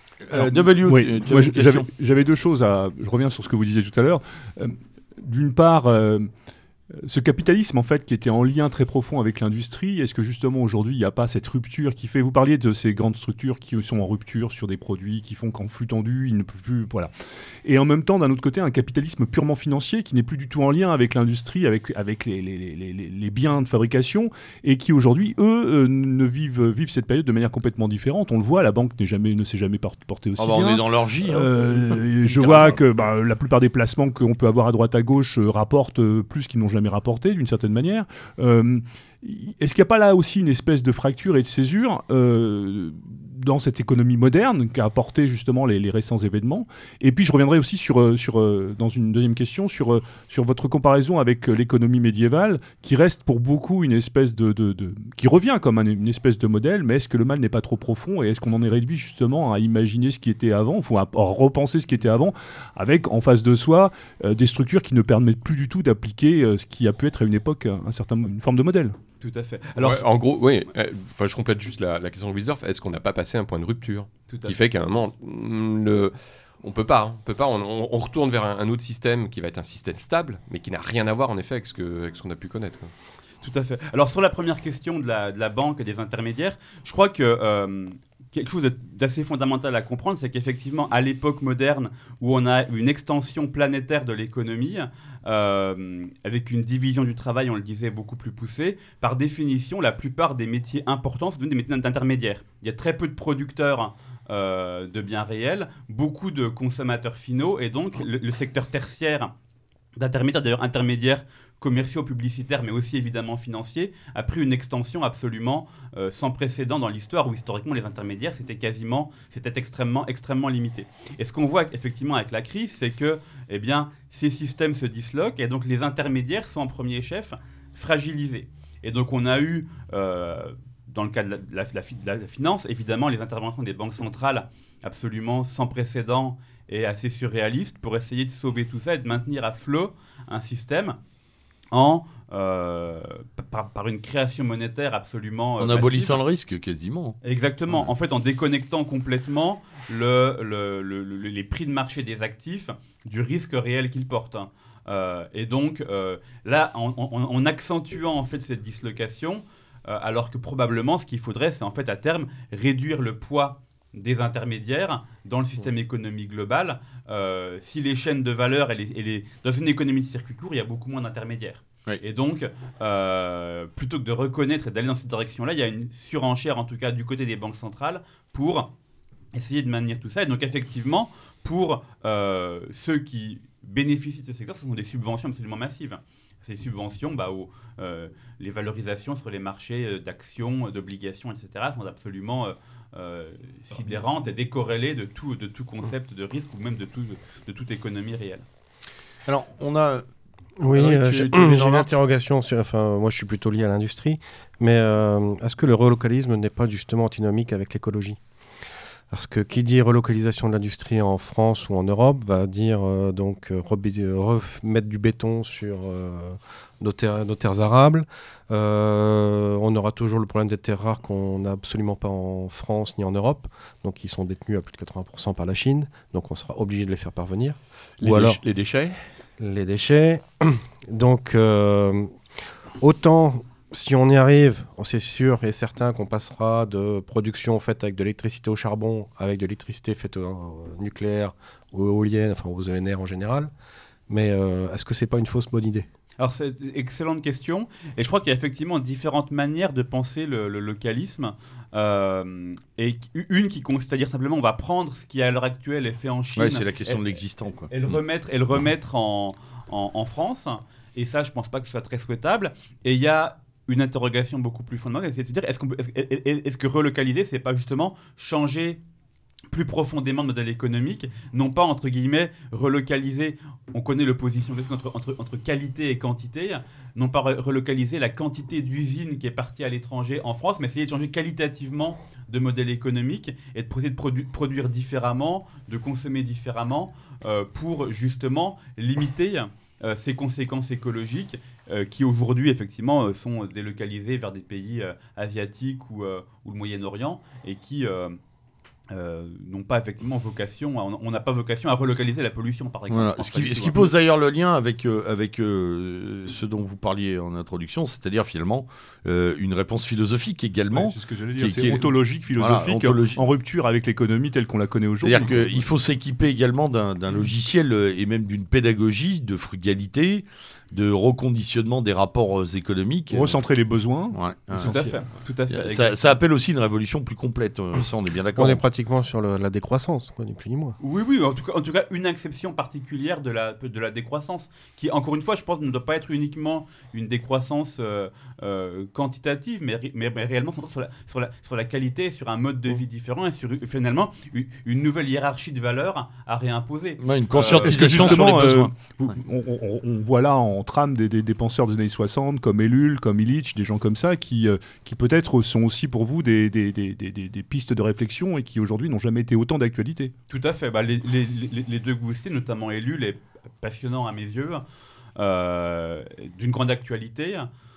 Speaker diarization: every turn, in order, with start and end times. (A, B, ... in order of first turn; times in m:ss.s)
0:00.2-0:01.9 A
0:00.3-0:06.3 B
0:06.9-0:17.1 B
0:17.6-1:09.0 B
0:30.4-0:32.8 A
1:09.2-1:10.0 C
1:09.8-1:22.9 D
1:14.3-1:14.6 C
1:23.4-1:49.3 C
1:50.0-2:21.0 C
2:21.7-2:26.2 C
2:25.6-2:27.2 A
2:27.2-2:58.7 C
2:59.3-3:18.4 C
3:19.2-3:20.0 A
3:20.6-3:28.2 E
3:20.7-3:21.9 A
3:29.1-3:48.4 E
3:48.0-3:49.0 D
3:49.4-3:52.2 E
3:52.8-4:03.5 E
4:04.1-4:05.9 E
4:06.2-4:17.0 C
4:16.4-4:18.0 A
4:17.7-4:28.8 C
4:29.5-4:58.2 C
4:58.9-5:03.9 C
5:02.9-5:13.2 A
5:10.7-5:15.6 B
5:15.0-5:23.4 A
5:23.1-5:25.1 B
5:24.1-5:24.7 A
5:24.6-5:26.0 C
5:25.5-5:28.6 A
5:28.4-5:30.8 E
5:30.8-5:48.3 C
5:47.0-5:49.0 A
5:47.6-6:00.1 B
6:00.3-6:04.6 C
6:05.2-6:07.5 C